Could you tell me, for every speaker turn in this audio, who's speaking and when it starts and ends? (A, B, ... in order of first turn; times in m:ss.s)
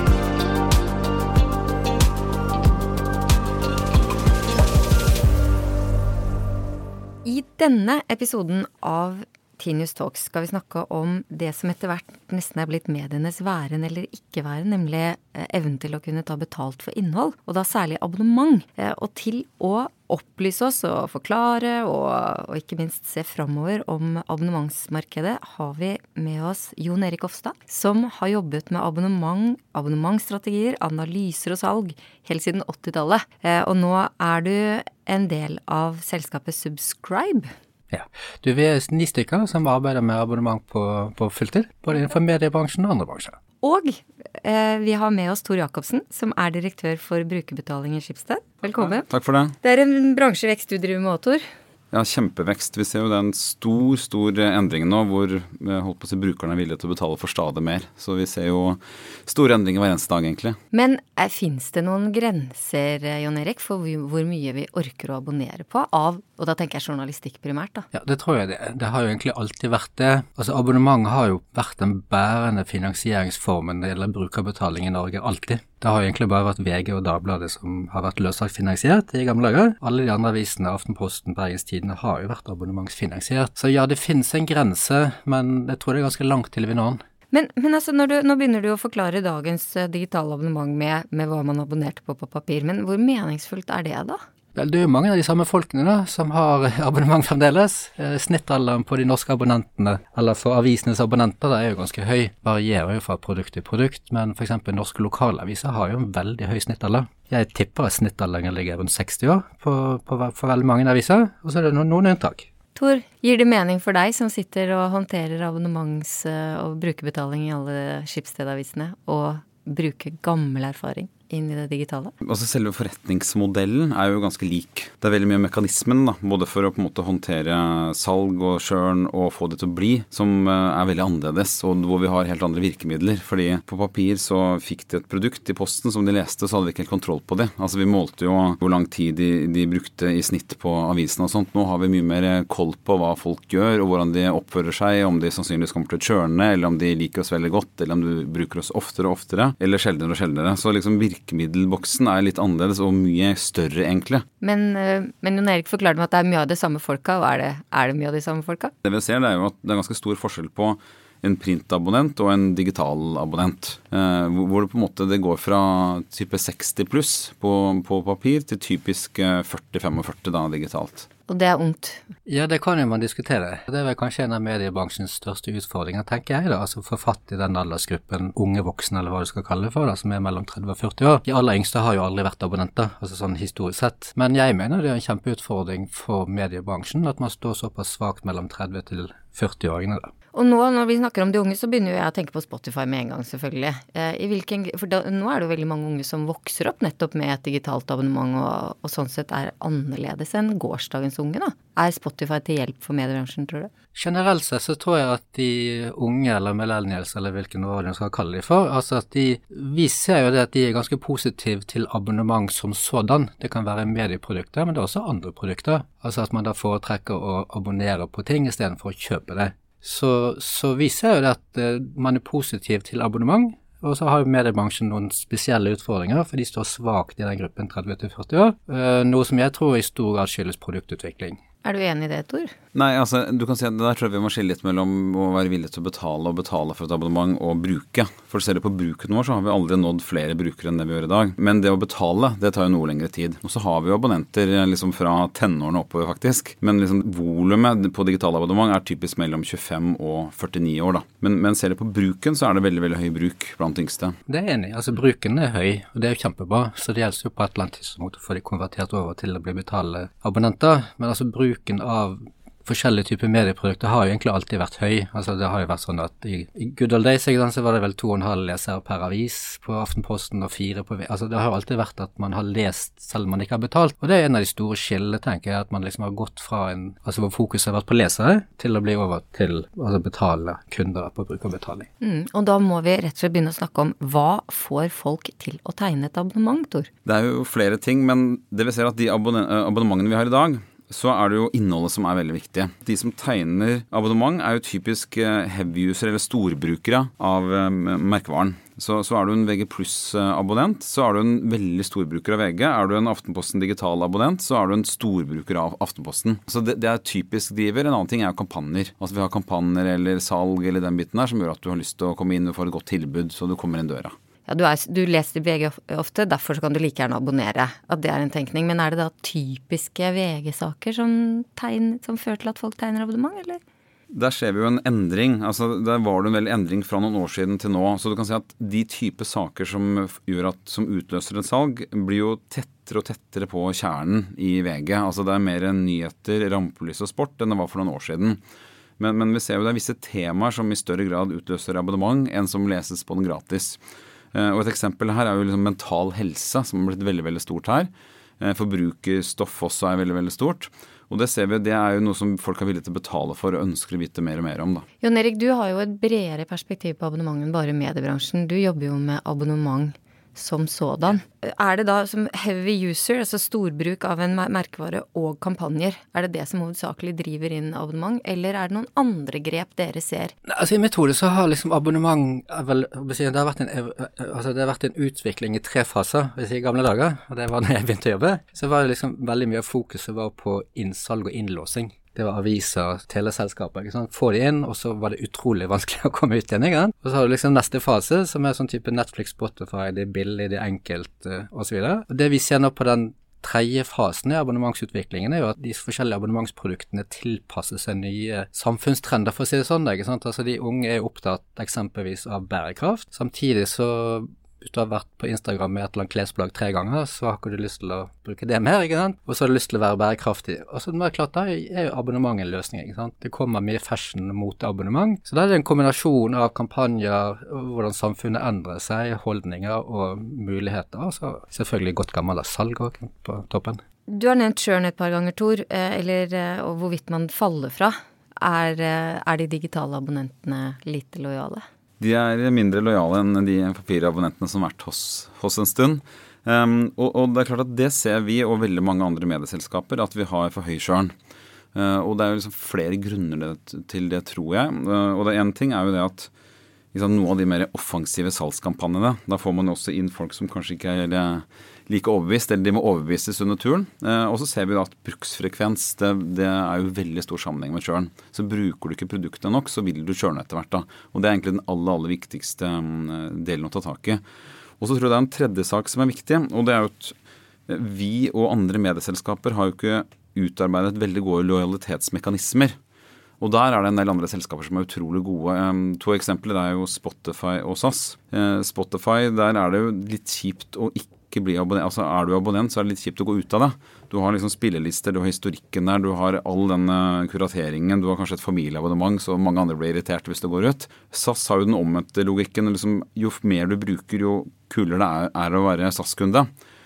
0:07.2-0:37.5 A
0:37.9-0:43.4 B
0:43.6-0:49.1 A
0:48.9-0:49.6 C
0:49.6-0:51.4 A
0:51.9-1:00.6 C
1:00.7-1:07.9 A
1:07.9-1:27.0 B
1:27.3-1:34.2 A
1:34.6-1:52.5 B
1:52.8-2:02.1 A
2:02.2-2:34.2 C
2:34.4-2:38.7 A
2:38.8-2:51.1 C
2:51.3-2:52.0 A
2:52.3-3:10.1 B
3:10.3-3:23.7 A
3:23.9-3:51.4 B
3:51.6-3:52.5 A
3:52.7-4:14.2 C
4:14.3-4:41.9 B
4:42.0-4:46.9 A
4:47.0-5:14.1 C
5:14.5-5:23.6 A
5:24.1-5:38.4 C
5:39.0-5:43.8 C
5:44.3-5:54.9 C
5:55.0-6:10.3 A
6:10.5-7:03.8 B
7:04.1-7:11.6 A
7:12.0-7:21.1 C
7:21.7-7:26.3 C
7:26.9-7:44.2 C
7:44.8-7:47.2 C
7:47.7-7:52.8 C
7:53.4-8:16.5 C